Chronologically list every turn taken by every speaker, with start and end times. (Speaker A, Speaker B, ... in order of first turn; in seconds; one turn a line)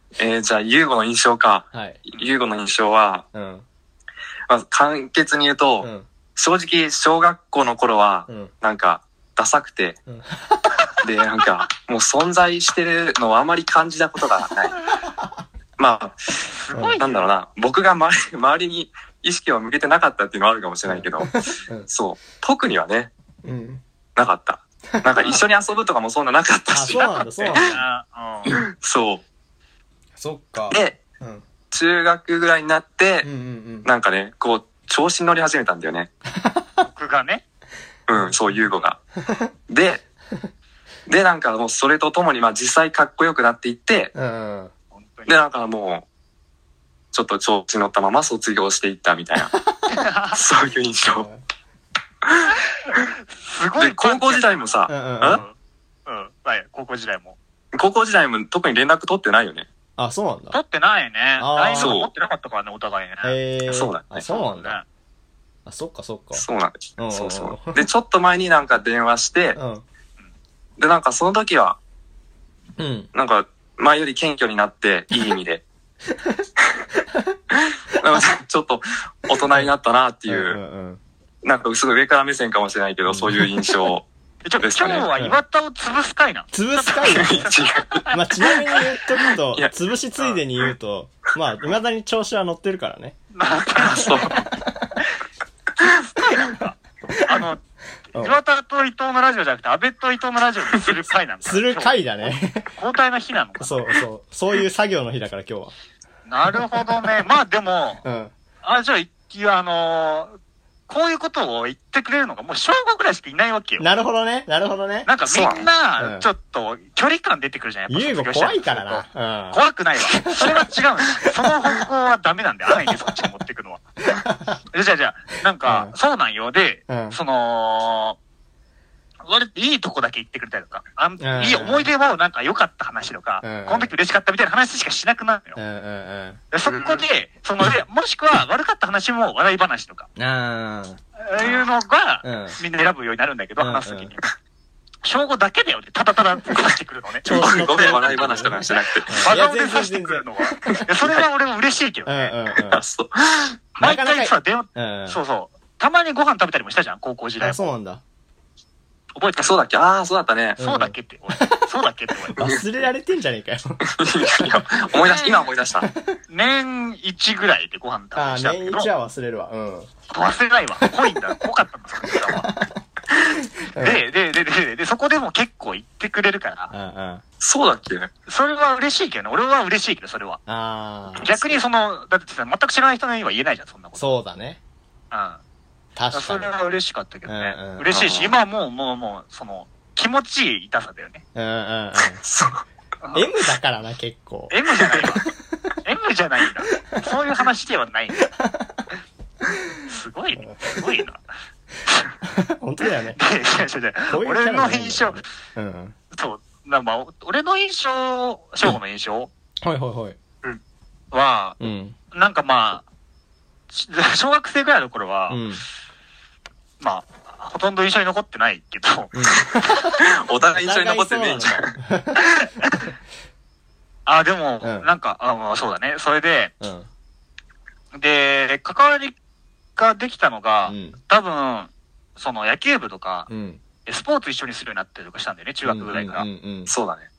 Speaker A: 0.2-3.2
Speaker B: 1.7-2.0
Speaker B: 3.3-3.6
Speaker A: 4.5-10.0
Speaker B: 5.8-6.1
Speaker B: 8.3-8.5
Speaker B: 10.1-10.6
Speaker A: 11.0-14.8
Speaker B: 15.0-15.4
Speaker A: 15.8-16.4
Speaker C: 16.4-17.3
Speaker B: 16.7-17.0
Speaker A: 17.0-23.1
Speaker B: 20.9-21.9
Speaker B: 23.4-23.8
Speaker A: 24.1-27.6
Speaker B: 25.0-25.4
Speaker B: 26.7-27.8
Speaker C: 26.9-28.6
Speaker A: 28.5-29.2
Speaker B: 30.2-31.4
Speaker A: 30.7-31.0
Speaker A: 31.7-33.3
Speaker B: 33.2-33.9
Speaker A: 33.8-36.1
Speaker B: 36.4-36.8
Speaker C: 36.9-37.4
Speaker A: 38.1-39.0
Speaker B: 39.2-39.5
Speaker A: 39.7-40.0
Speaker A: 41.1-44.1
Speaker B: 44.1-44.7
Speaker C: 44.9-45.4
Speaker A: 45.3-46.0
Speaker A: 47.1-49.5
Speaker C: 49.9-50.4
Speaker A: 50.3-51.3
Speaker B: 51.1-51.4
Speaker A: 52.2-52.5
Speaker C: 53.3-55.5
Speaker A: 53.8-55.4
Speaker B: 54.9-55.4
Speaker C: 56.0-57.4
Speaker A: 57.7-59.7
Speaker B: 60.0-60.6
Speaker C: 60.5-63.4
Speaker B: 61.4-62.0
Speaker A: 61.8-62.1
Speaker B: 63.2-64.8
Speaker A: 63.7-64.2
Speaker C: 64.2-64.8
Speaker B: 65.7-66.4
Speaker A: 66.3-69.6
Speaker B: 67.0-67.8
Speaker B: 69.5-69.8
Speaker A: 70.8-71.8
Speaker B: 72.8-73.1
Speaker A: 73.1-75.6
Speaker B: 76.1-76.4
Speaker A: 77.5-80.6
Speaker B: 80.3-81.0
Speaker A: 81.4-84.1
Speaker B: 83.1-83.7
Speaker C: 84.4-88.1
Speaker A: 84.6-85.1
Speaker B: 86.5-87.5
Speaker A: 87.0-88.1
Speaker B: 88.1-93.2
Speaker C: 93.3-94.3
Speaker A: 93.8-94.3
Speaker B: 93.9-94.9
Speaker C: 96.2-97.6
Speaker C: 98.1-103.9
Speaker B: 101.4-102.7
Speaker B: 103.6-105.7
Speaker C: 106.3-108.0
Speaker B: 108.0-108.3
Speaker C: 108.6-110.3
Speaker C: 110.9-113.8
Speaker B: 113.8-115.1
Speaker C: 115.0-123.8
Speaker A: 115.3-115.7
Speaker B: 116.0-116.3
Speaker B: 117.9-120.6
Speaker B: 124.2-124.6
Speaker C: 124.7-128.2
Speaker B: 125.7-125.9
Speaker B: 126.9-127.2
Speaker C: 129.2-135.6
Speaker B: 131.2-131.9
Speaker B: 133.4-133.9
Speaker B: 135.6-136.4
Speaker C: 136.5-140.1
Speaker A: 136.7-137.0
Speaker B: 140.2-141.0
Speaker C: 141.2-144.2
Speaker A: 141.4-141.7
Speaker B: 142.2-142.6
Speaker B: 143.6-144.1
Speaker C: 145.0-148.5
Speaker B: 147.2-150.8
Speaker A: 147.2-149.3
Speaker C: 149.2-152.3
Speaker B: 152.0-152.8
Speaker A: 152.7-153.6
Speaker B: 153.8-155.2
Speaker C: 153.8-157.7
Speaker B: 157.4-158.0
Speaker C: 159.2-159.6
Speaker A: 159.4-160.6
Speaker B: 160.6-161.7
Speaker C: 160.6-162.4
Speaker B: 162.3-164.7
Speaker A: 162.4-162.7
Speaker A: 163.8-165.9
Speaker C: 165.0-165.4
Speaker B: 165.8-166.2
Speaker C: 166.3-168.9
Speaker B: 168.1-169.9
Speaker C: 170.1-172.5
Speaker B: 172.2-172.8
Speaker B: 173.3-174.0
Speaker C: 173.8-176.7
Speaker B: 176.7-177.2
Speaker A: 177.4-178.1
Speaker C: 178.3-180.4
Speaker B: 180.5-181.3
Speaker C: 181.2-184.1
Speaker A: 181.2-181.5
Speaker B: 183.9-184.6
Speaker C: 185.1-185.4
Speaker B: 185.9-186.5
Speaker C: 186.1-191.2
Speaker B: 187.2-187.9
Speaker A: 187.9-188.3
Speaker B: 191.3-192.2
Speaker A: 192.2-192.6
Speaker C: 193.0-193.3
Speaker B: 193.1-194.5
Speaker C: 194.5-195.3
Speaker C: 195.8-198.2
Speaker B: 198.3-198.8
Speaker C: 199.9-201.2
Speaker B: 200.4-200.8
Speaker C: 201.8-202.1
Speaker B: 202.2-203.2
Speaker C: 203.1-205.2
Speaker B: 204.1-205.9
Speaker C: 206.1-209.3
Speaker B: 209.6-210.2
Speaker C: 211.1-211.6
Speaker B: 211.6-211.9
Speaker C: 212.1-212.8
Speaker C: 213.7-215.4
Speaker B: 215.3-215.6
Speaker C: 216.8-219.1
Speaker B: 219.1-219.5
Speaker A: 220.0-221.7
Speaker B: 220.5-222.2
Speaker C: 222.3-222.9
Speaker C: 224.1-226.5
Speaker B: 224.6-224.9
Speaker B: 226.6-226.9
Speaker C: 227.9-229.1
Speaker C: 229.8-233.3
Speaker B: 230.7-231.0
Speaker B: 233.3-233.6
Speaker C: 233.8-236.2
Speaker B: 235.6-236.7
Speaker A: 236.7-237.1